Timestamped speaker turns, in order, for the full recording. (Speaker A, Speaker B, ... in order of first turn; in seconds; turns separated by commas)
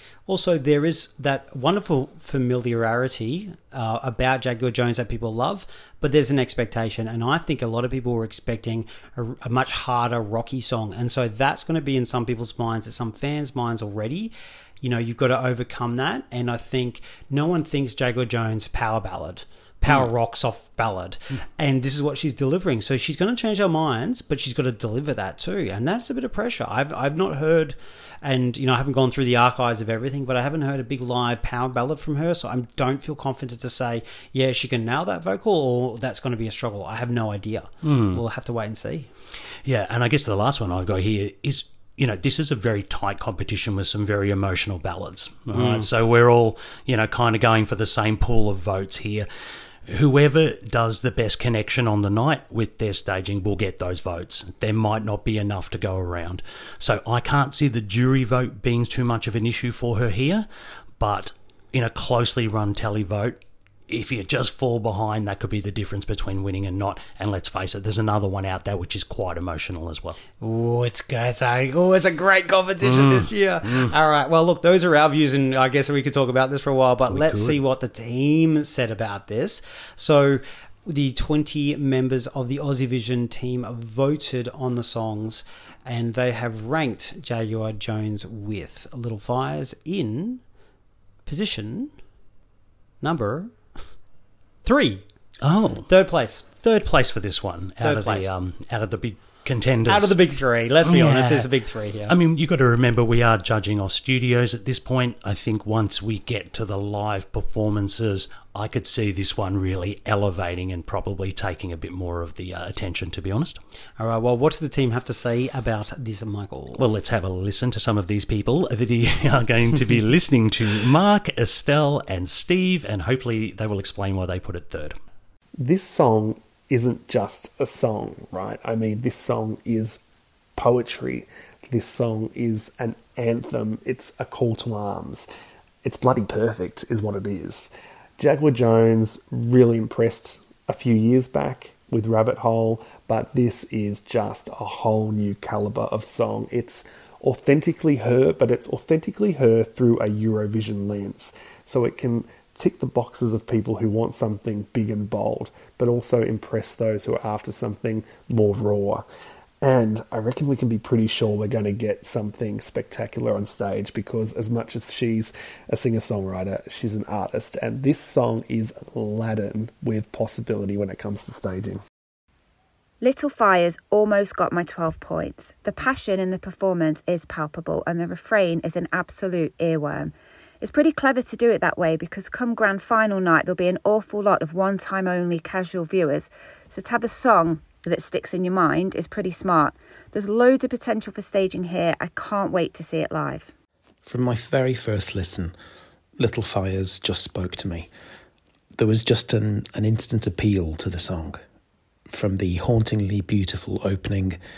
Speaker A: 0.3-39.1, Speaker B: 37.8-38.2, Speaker B: 39.6-49.2, Speaker A: 45.5-45.9, Speaker B: 49.9-60.5, Speaker B: 61.0-70.2, Speaker A: 70.4-90.4, Speaker B: 72.8-73.9, Speaker B: 77.0-77.6, Speaker A: 91.2-91.9, Speaker A: 93.0-93.5, Speaker A: 94.6-95.0, Speaker B: 95.4-95.9, Speaker A: 95.9-96.4, Speaker B: 96.6-100.1, Speaker A: 97.8-98.3, Speaker A: 99.9-102.1, Speaker B: 100.8-101.5, Speaker B: 102.0-113.6, Speaker A: 114.0-116.8, Speaker B: 116.8-125.0, Speaker C: 125.6-130.0, Speaker C: 130.6-135.3, Speaker C: 135.8-159.0, Speaker C: 159.6-171.8, Speaker D: 173.0-193.5, Speaker E: 194.1-195.5, Speaker E: 196.2-197.9, Speaker E: 198.7-201.4, Speaker E: 202.1-204.4